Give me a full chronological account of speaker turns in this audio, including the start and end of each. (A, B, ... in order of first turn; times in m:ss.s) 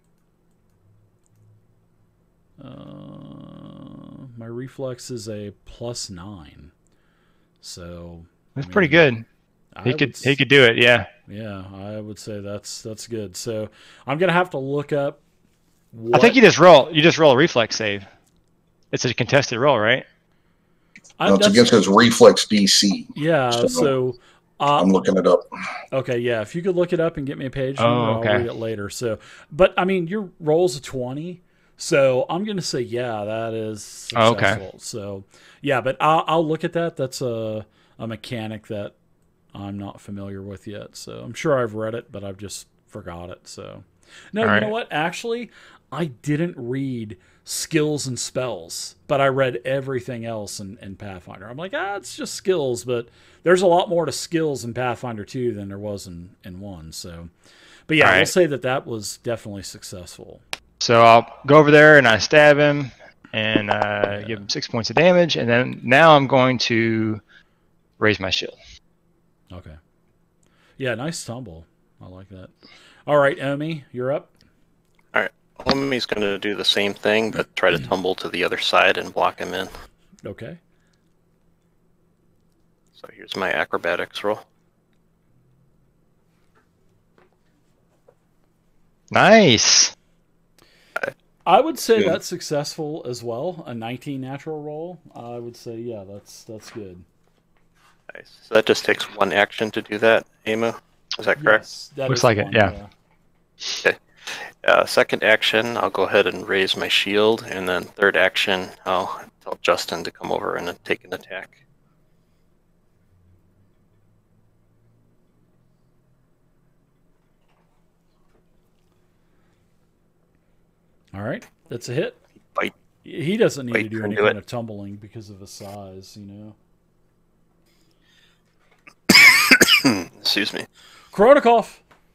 0:02.6-0:06.7 A
0:07.6-0:09.1 A
0:08.6-0:09.2 B
0:09.8-0:10.4 A
0:09.8-0:11.1 B
0:11.3-0:15.2 A
0:15.9-0:16.4 A
0:16.1-0:18.1 B
0:18.9-0:20.0 B
0:21.2-0:21.7 A
0:21.3-0:23.9 C
0:23.2-0:24.9 A
0:24.8-0:25.5 C
0:25.9-0:39.0 A
0:27.8-0:28.5 B
0:34.2-0:34.6 B
0:39.5-0:57.3 A
0:44.4-0:44.7 B
0:57.9-1:00.4 A
0:58.0-0:58.3 B
1:00.8-1:07.2 B
1:04.1-1:04.4 A
1:08.0-1:08.6 B
1:09.5-1:09.8 A
1:10.8-1:12.5 A
1:13.1-1:14.3 A
1:15.1-1:19.7 D
1:20.2-1:20.6 A
1:23.0-1:24.4 D
1:29.1-1:29.9 B
1:31.5-1:37.0 A
1:38.1-1:41.6 D
1:41.4-1:42.9 A
1:42.1-1:42.7 B
1:43.8-1:51.6 D
2:01.1-2:02.2 A
2:03.0-2:06.6 A
2:03.7-2:04.4 D
2:09.1-2:10.7 D
2:11.1-2:11.8 A